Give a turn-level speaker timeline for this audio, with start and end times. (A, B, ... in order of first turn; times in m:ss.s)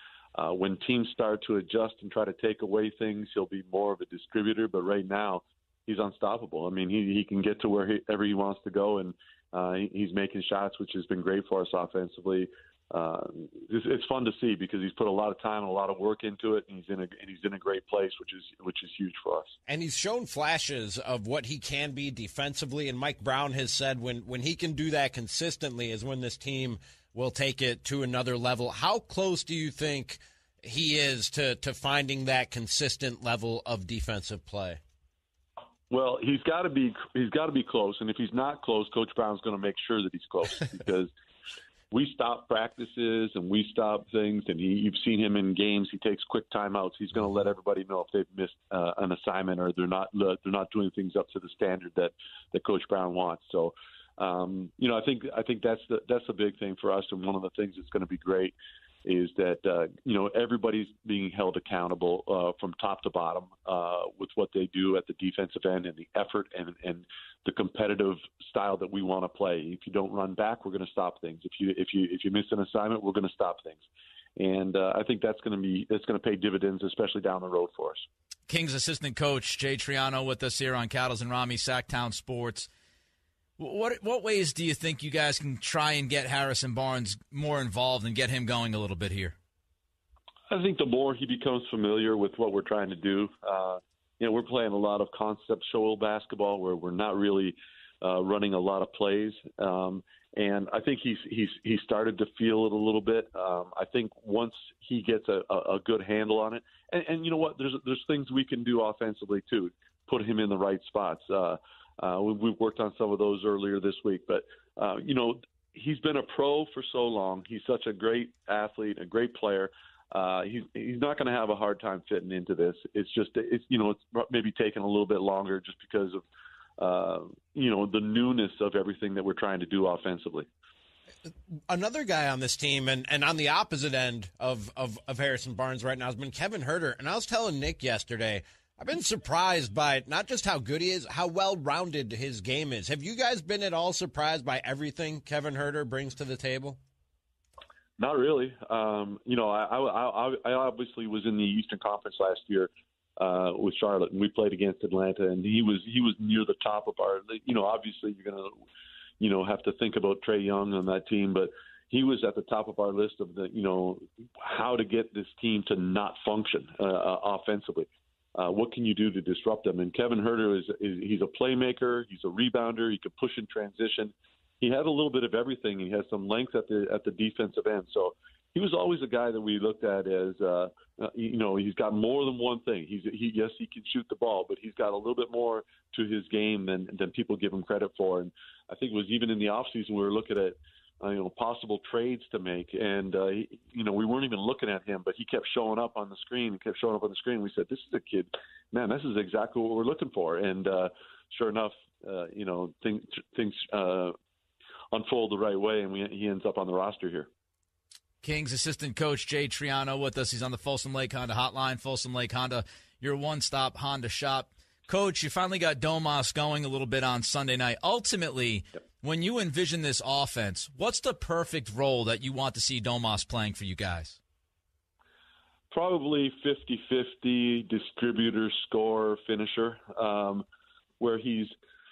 0:00.3-0:19.5 A
0:19.7-0:34.8 B
0:35.9-0:41.1 A
0:41.9-1:13.8 A
1:14.4-1:18.0 A
1:18.5-1:22.7 C
1:23.6-1:29.3 C
1:30.5-2:06.2 A
2:06.8-2:10.4 A
2:11.7-2:26.8 B
2:28.0-2:38.6 A
2:39.2-3:24.1 A
3:24.9-3:27.3 A
3:28.2-3:44.2 C
3:45.7-3:50.4 A
3:51.0-3:51.5 A